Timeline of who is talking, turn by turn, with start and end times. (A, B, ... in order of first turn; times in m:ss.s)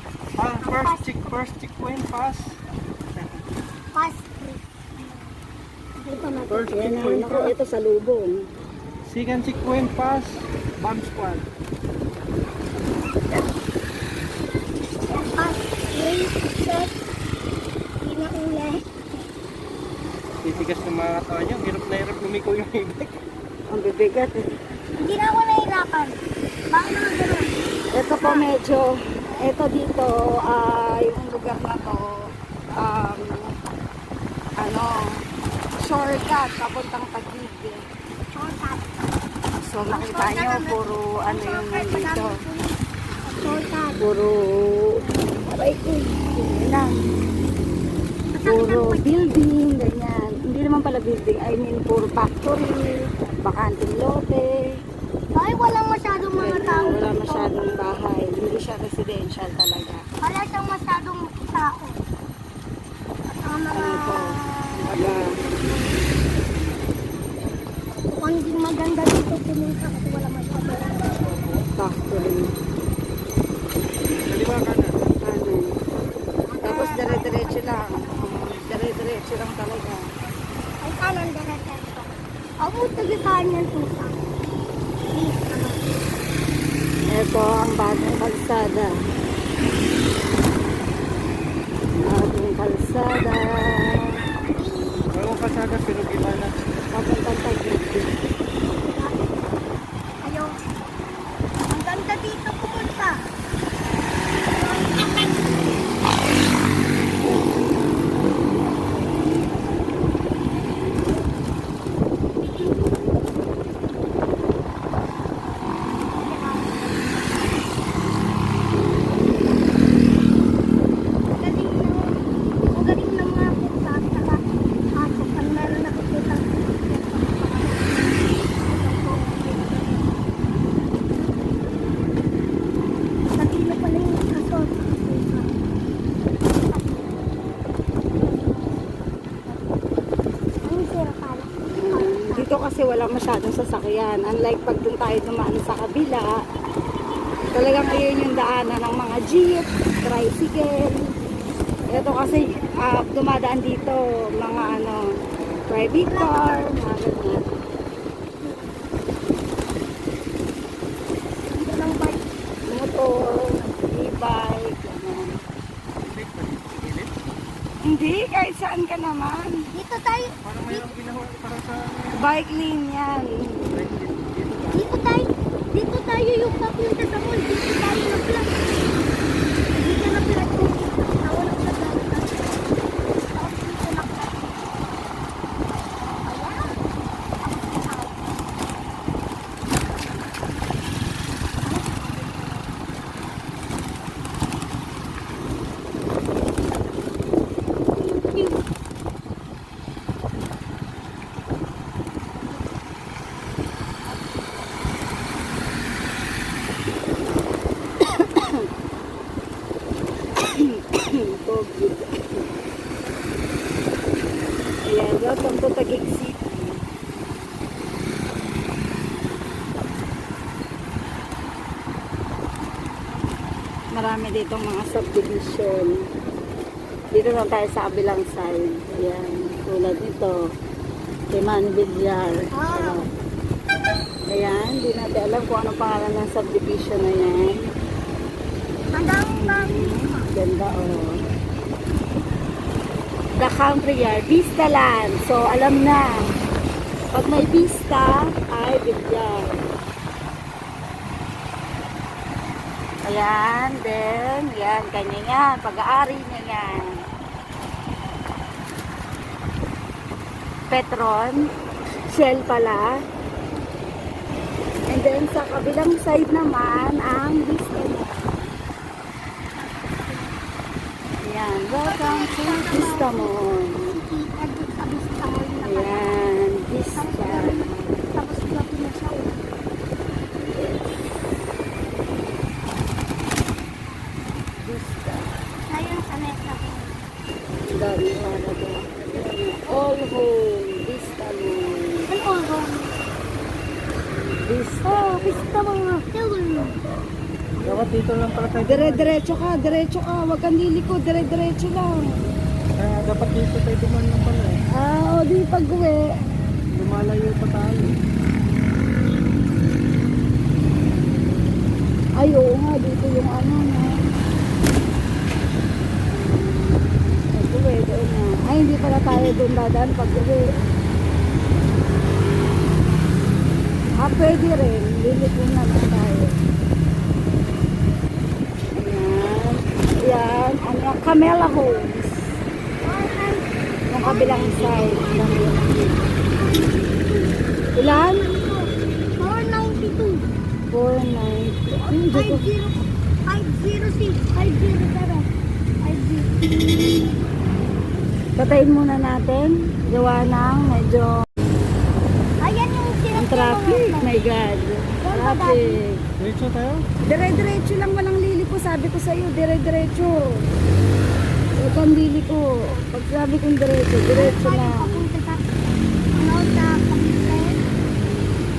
0:00.4-0:02.6 A
0:00.6-0:01.1 B
0:03.9-0:05.2 B
0:06.0-0:07.5 B
0:06.5-0:07.5 A
0:06.7-0:08.5 C
0:09.1-0:11.4 A
0:15.1-0:16.9 B
0:18.0-0:18.8 B
0:20.4-0:23.2 A
0:23.7-0:24.5 C
0:25.0-0:26.2 B
0:26.7-0:27.5 B
0:27.9-0:32.3 C
0:28.1-0:28.5 B
0:32.8-0:33.5 C
0:34.6-0:34.9 C
0:35.8-0:37.8 C
0:38.3-0:38.9 B
0:39.6-0:42.3 C
0:39.9-0:44.0 B
0:44.0-0:47.0 C
0:45.0-0:45.3 B
0:48.3-0:49.3 B
0:48.4-0:54.5 C
0:55.3-0:57.6 B
0:56.4-1:00.0 C
1:00.2-1:02.0 B
1:03.3-1:06.0 B
1:03.7-1:05.3 C
1:08.1-1:11.3 B
1:11.8-1:12.5 C
1:14.2-1:15.0 A
1:15.2-1:15.7 C
1:16.5-1:18.4 B
1:16.6-1:20.0 C
1:20.8-1:22.1 B
1:22.6-1:24.2 B
1:25.1-1:26.0 B
1:27.1-1:28.9 C
1:32.0-1:34.2 C
1:34.6-1:35.1 B
1:35.1-1:36.5 A
1:36.9-1:38.1 C
1:38.8-1:39.4 B
1:40.2-1:40.6 B
1:41.7-1:43.1 B
1:44.5-1:45.8 B
1:56.1-1:57.6 B
2:01.3-2:02.2 B
2:02.7-2:04.4 B
2:04.9-2:10.2 B
2:13.3-2:15.5 B
2:16.5-2:17.2 B
2:18.2-2:19.8 B
2:20.6-2:22.5 B
2:21.8-2:26.4 C
2:27.5-2:31.1 C
2:31.9-2:35.1 C
2:35.7-2:37.4 C
2:36.0-2:36.8 B
2:38.4-2:38.8 B
2:41.5-2:42.2 B
2:42.7-2:45.4 C
2:46.0-2:47.1 A
2:47.8-2:49.6 C
2:49.7-2:50.7 B
2:50.4-2:52.2 A
2:52.2-2:53.7 C
2:53.7-2:54.9 A
2:54.7-2:58.7 B
2:59.7-3:04.8 B
3:06.2-3:06.7 B
3:07.4-3:08.3 B
3:11.6-3:12.9 B
3:17.9-3:18.6 B
3:28.0-3:28.7 C
3:30.4-3:32.5 C
3:34.9-3:36.8 C
3:43.9-3:46.0 C
3:47.1-3:50.3 C
3:51.3-3:53.1 C
3:52.5-3:53.0 B
3:54.3-3:57.7 C
3:58.9-4:00.3 B
3:59.3-4:01.2 C
4:03.4-4:06.0 C
4:07.1-4:09.6 C
4:13.1-4:16.8 C
4:20.7-4:21.4 C
4:22.1-4:22.9 C
4:24.9-4:28.5 C
4:29.6-4:30.3 B
4:31.2-4:33.8 C
4:31.8-4:33.2 B
4:33.9-4:36.3 B
4:35.6-4:37.6 C
4:36.9-4:39.5 B
4:44.6-4:45.3 C
4:45.7-4:46.9 B
4:47.7-4:52.1 C
4:52.1-4:52.9 B
4:54.5-4:55.3 C
4:54.8-4:56.7 B
4:57.6-4:59.1 A
4:58.6-5:02.1 C
5:02.8-5:04.6 A
5:04.7-5:06.0 C
5:06.7-5:08.0 A
5:12.2-5:13.9 C
5:17.3-5:20.4 C
5:19.1-5:19.4 B
5:24.0-5:26.4 C
5:28.8-5:32.4 C
5:32.8-5:33.4 B
5:33.9-5:35.6 C
5:34.0-5:40.2 B
5:37.8-5:38.2 C
5:40.7-5:42.4 C
5:41.9-5:42.7 B
5:43.3-5:45.3 B
5:45.8-5:47.0 B
5:48.4-5:51.2 C
5:52.4-5:54.1 B
5:53.1-5:56.0 C
5:55.0-5:55.8 B
5:56.2-5:56.8 A
5:57.0-6:00.4 C
6:01.6-6:05.0 C
6:04.1-6:05.4 B
6:06.1-6:07.6 B